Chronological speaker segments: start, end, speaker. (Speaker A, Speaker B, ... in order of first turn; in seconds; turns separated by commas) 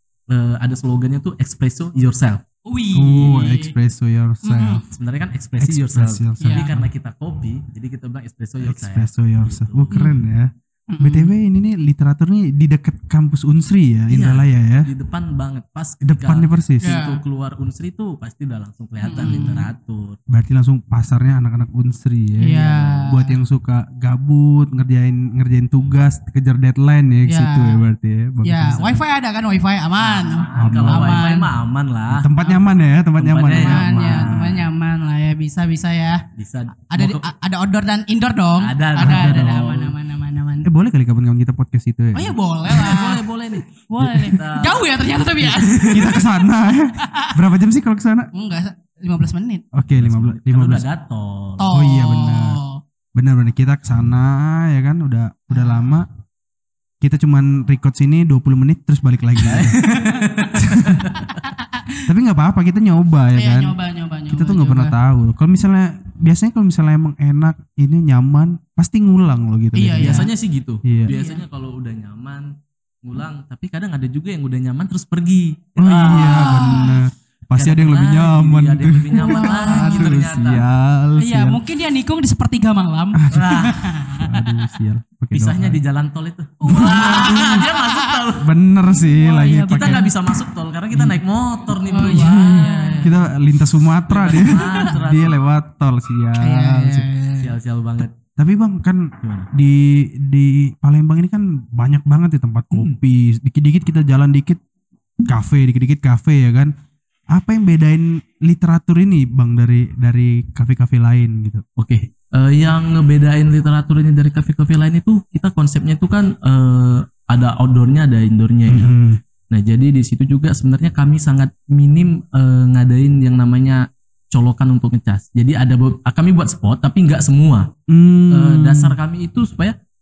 Speaker A: 0.3-2.4, Speaker B: 2.6-3.7, Speaker C: 2.9-4.8, Speaker B: 4.4-4.8, Speaker A: 4.9-9.9, Speaker C: 5.6-6.9, Speaker B: 6.4-6.7, Speaker C: 8.6-14.9, Speaker B: 9.9-10.2, Speaker B: 10.9-11.3, Speaker A: 14.1-20.2, Speaker C: 16.0-17.0, Speaker B: 16.8-17.2, Speaker B: 19.0-19.7, Speaker C: 19.2-19.5, Speaker C: 20.3-29.0, Speaker B: 22.4-23.4, Speaker B: 27.3-27.8, Speaker B: 28.4-31.5, Speaker A: 30.0-32.3, Speaker C: 30.5-31.3, Speaker C: 32.1-34.5, Speaker A: 33.2-34.6, Speaker B: 33.5-36.2, Speaker A: 36.4-37.3, Speaker B: 36.9-40.7, Speaker A: 38.6-39.9, Speaker C: 39.0-39.7, Speaker C: 40.6-43.0, Speaker B: 42.1-43.2, Speaker A: 42.7-44.9, Speaker B: 43.9-46.2, Speaker C: 44.0-44.3, Speaker C: 45.4-48.3, Speaker A: 45.4-46.1, Speaker B: 47.0-47.4, Speaker B: 48.3-49.6, Speaker C: 49.7-50.8, Speaker A: 50.0-51.7, Speaker B: 51.6-52.8, Speaker C: 51.7-52.6, Speaker C: 53.1-56.1, Speaker B: 55.5-55.9, Speaker C: 57.0-59.8, Speaker A: 59.4-61.4, Speaker C: 60.5-61.0, Speaker B: 61.4-62.0, Speaker C: 62.1-63.7, Speaker B: 63.3-64.9, Speaker C: 64.3-70.3, Speaker B: 69.7-70.3, Speaker A: 70.0-72.5, Speaker C: 70.8-71.1, Speaker B: 71.1-71.4, Speaker A: 73.0-76.8, Speaker C: 75.8-81.6, Speaker B: 76.0-77.0, Speaker A: 77.5-80.6, Speaker B: 79.1-80.2, Speaker B: 81.2-84.5, Speaker C: 83.2-85.8, Speaker A: 83.3-83.9, Speaker A: 85.3-88.5, Speaker B: 86.6-88.2, Speaker C: 86.7-87.6, Speaker C: 88.4-90.1, Speaker B: 88.9-90.1, Speaker A: 89.7-93.1, Speaker C: 90.9-91.2, Speaker B: 91.8-93.3, Speaker C: 92.0-97.1, Speaker A: 94.1-95.4, Speaker B: 94.3-94.9, Speaker B: 96.4-97.5, Speaker A: 97.4-98.1, Speaker C: 98.4-104.6, Speaker A: 99.2-99.5, Speaker C: 105.3-106.7, Speaker C: 107.3-111.6, Speaker A: 111.8-118.9, Speaker C: 118.7-119.2, Speaker A: 119.5-127.7, Speaker C: 127.9-129.0, Speaker A: 128.3-129.7